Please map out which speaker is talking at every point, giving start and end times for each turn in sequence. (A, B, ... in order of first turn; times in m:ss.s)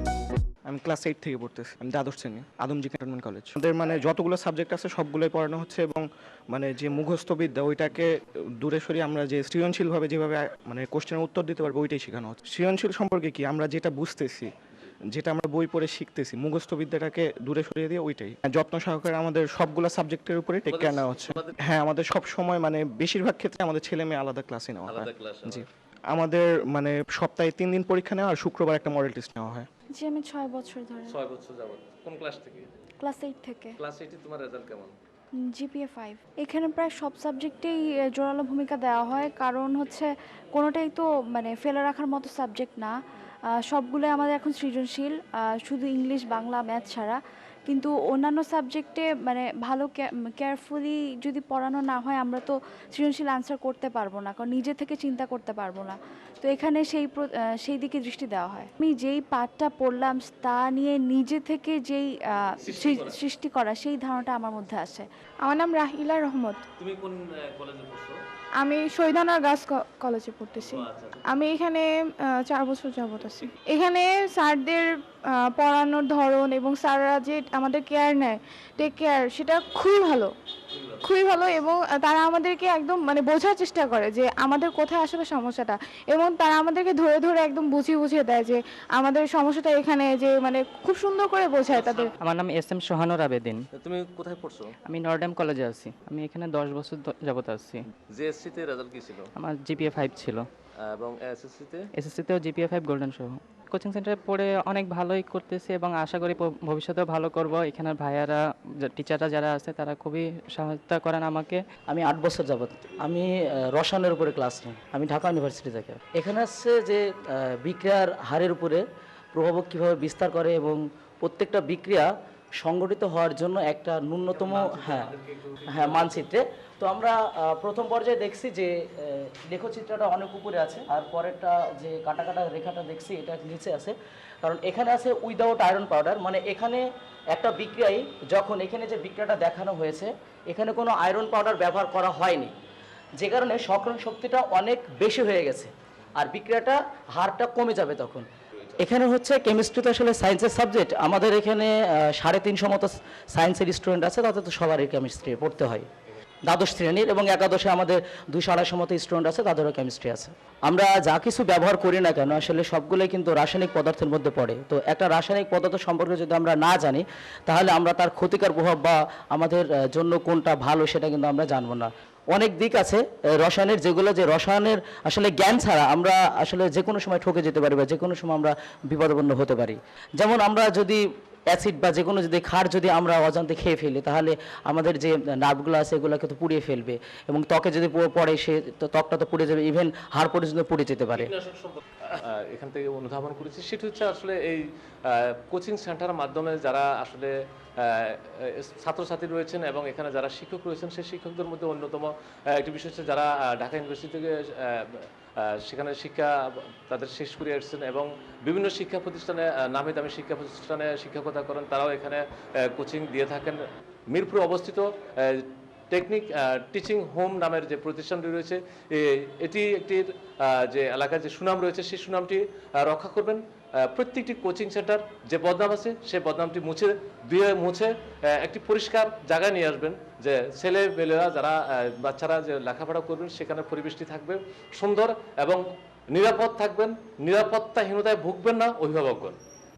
0:00.7-0:14.5 A
0:15.1-0:29.7 A
0:20.7-0:21.6 B
0:24.9-0:25.7 B
0:29.9-0:31.1 C
0:31.1-0:32.7 B
0:33.0-0:33.8 C
0:33.8-0:34.9 B
0:35.4-0:42.9 C
0:43.5-1:05.1 C
1:02.6-1:03.2 B
1:05.4-1:06.6 D
1:06.8-1:08.2 B
1:08.6-1:20.3 D
1:10.6-1:11.2 B
1:13.2-1:13.5 B
1:20.7-1:21.1 B
1:21.0-1:32.1 D
1:31.7-1:32.1 B
1:32.2-1:33.6 E
1:33.7-1:34.7 B
1:34.8-1:37.8 E
1:38.1-1:39.3 B
1:39.4-1:40.5 E
1:40.8-1:41.9 B
1:41.9-1:51.6 E
1:51.9-1:58.8 F
1:59.3-2:02.1 F
2:02.6-2:05.1 F
2:04.3-2:06.2 B
2:05.7-2:22.5 F
2:23.2-2:28.2 F
2:28.8-2:35.9 F
2:36.5-3:11.3 F
3:11.2-3:59.4 B